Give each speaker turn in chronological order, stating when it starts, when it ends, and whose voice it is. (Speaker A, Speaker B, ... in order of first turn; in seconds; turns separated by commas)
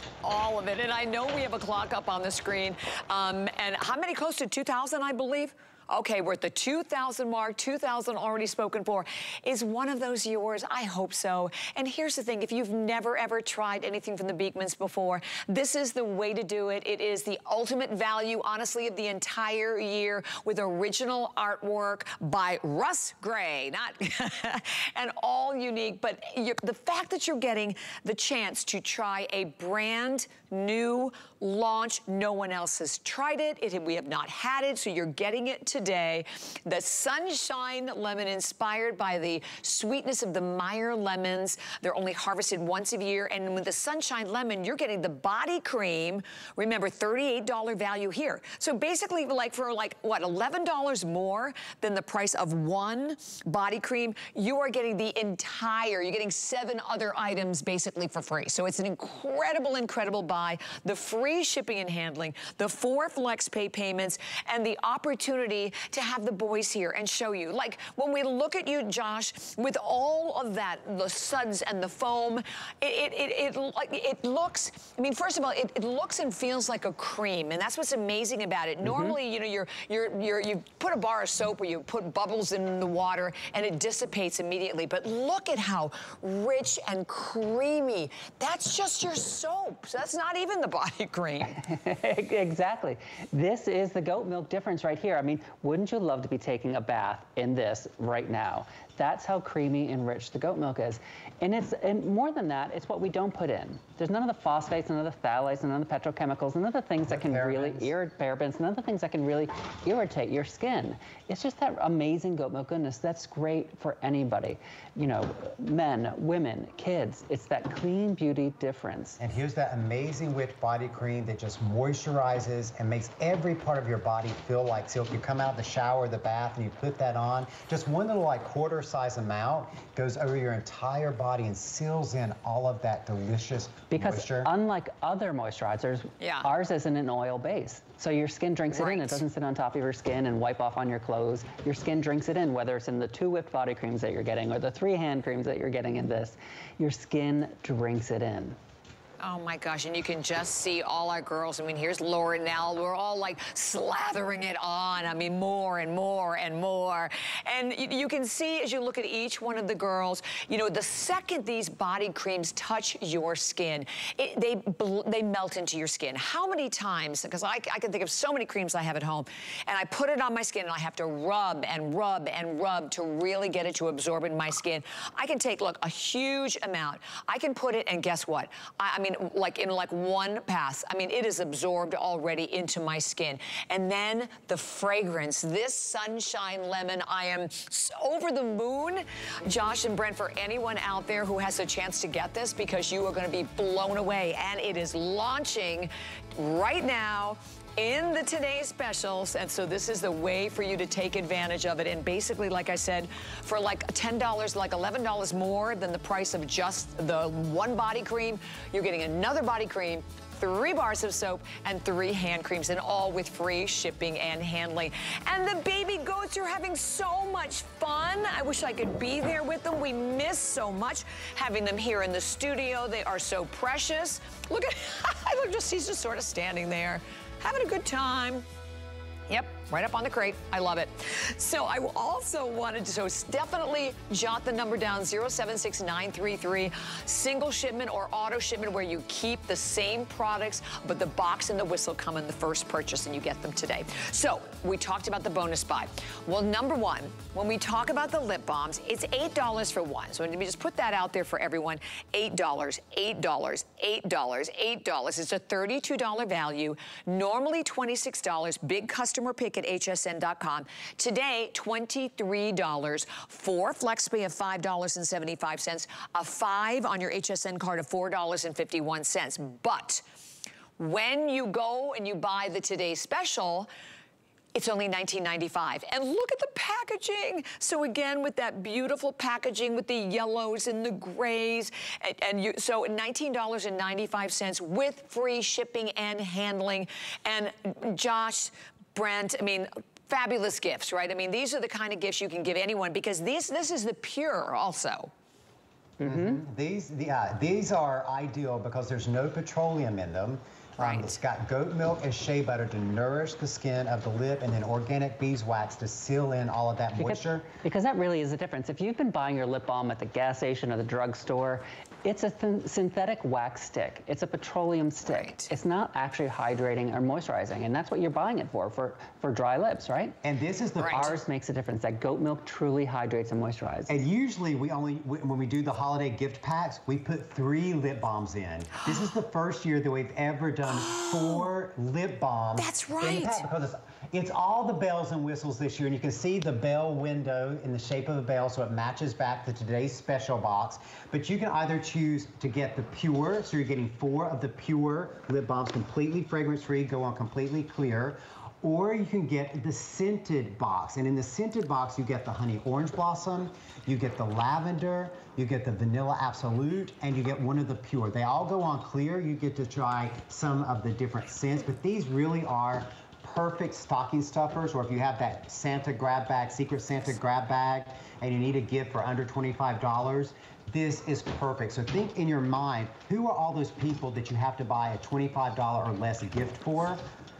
Speaker A: 0.2-91.6, Speaker B: 91.5-119.2, Speaker C: 107.0-107.9, Speaker C: 119.2-134.5, Speaker B: 133.9-148.6, Speaker A: 136.2-136.5, Speaker A: 138.7-139.2, Speaker A: 149.2-228.4, Speaker A: 229.3-270.0, Speaker A: 270.8-273.7, Speaker A: 274.5-295.1, Speaker B: 296.0-296.4, Speaker C: 296.0-307.5, Speaker A: 300.8-301.2, Speaker B: 307.0-320.2, Speaker A: 315.1-315.5, Speaker C: 320.2-321.2, Speaker A: 320.8-321.1, Speaker B: 320.9-324.0, Speaker C: 323.9-377.0, Speaker A: 330.7-331.4, Speaker A: 332.6-333.4